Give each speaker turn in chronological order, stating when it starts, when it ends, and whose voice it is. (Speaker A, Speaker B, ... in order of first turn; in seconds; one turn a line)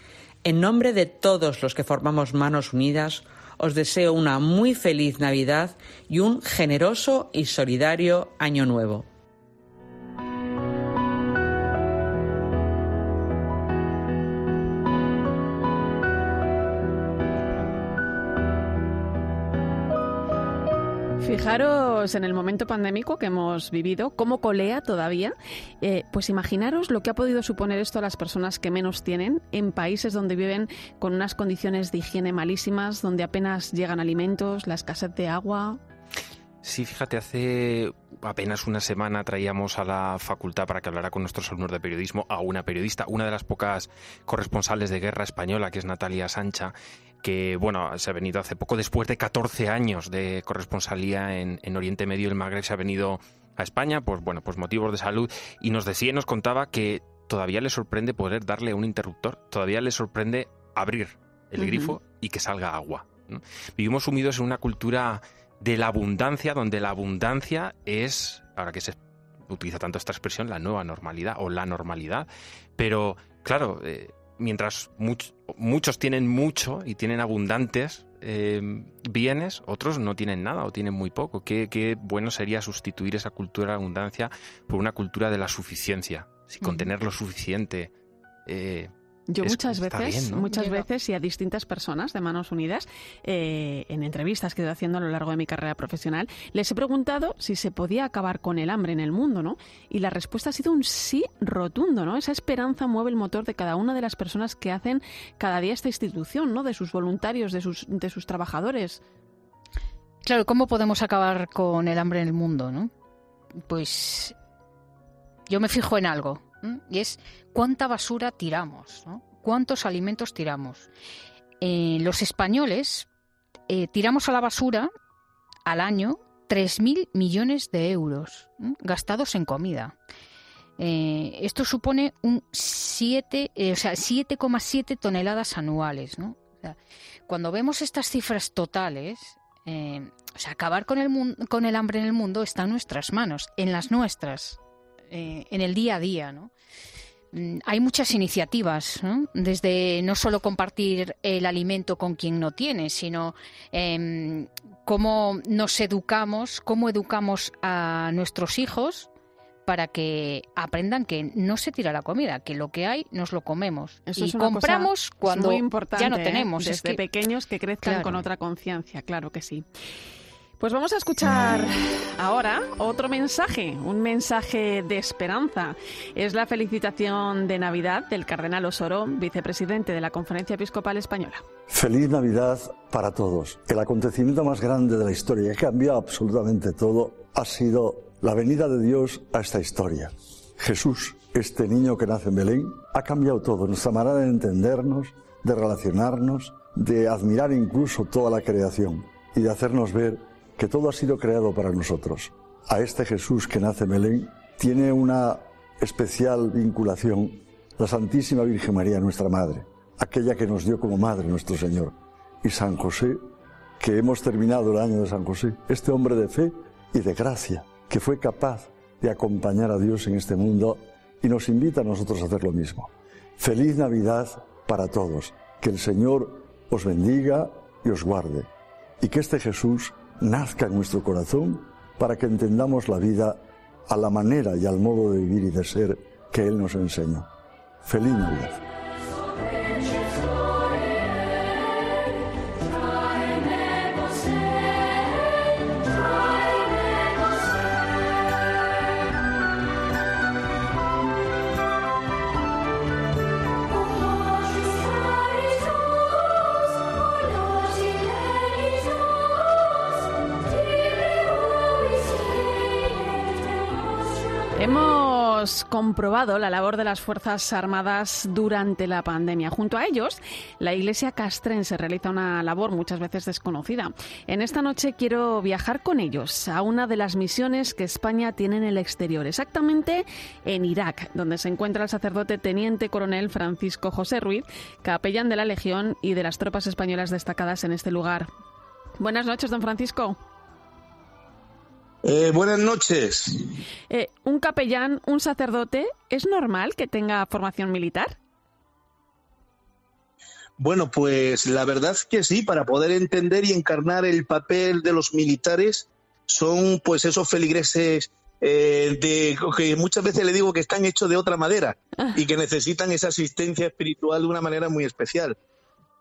Speaker A: 0.4-9.1
Speaker B: 21.2-35.8
Speaker C: 36.6-87.9
Speaker D: 61.6-62.0
Speaker D: 86.6-86.9
Speaker C: 88.5-90.5
Speaker B: 89.3-109.0
Speaker D: 110.2-112.9
Speaker D: 113.7-114.3
Speaker D: 115.5-120.9
Speaker D: 121.6-123.1
Speaker D: 123.7-124.9
Speaker D: 125.7-129.9
Speaker D: 130.8-144.6
Speaker D: 145.1-146.5
Speaker D: 147.3-159.1
Speaker D: 159.7-167.0
Speaker B: 164.1-169.6
Speaker D: 167.8-168.2
Speaker B: 170.6-181.4
Speaker E: 181.7-213.2
Speaker E: 213.8-228.5
Speaker E: 229.0-237.3
Speaker E: 237.8-238.6
Speaker B: 264.6-288.3
Speaker B: 289.0-290.2
Speaker F: 292.0-293.4
Speaker B: 293.9-298.2
Speaker F: 300.6-315.4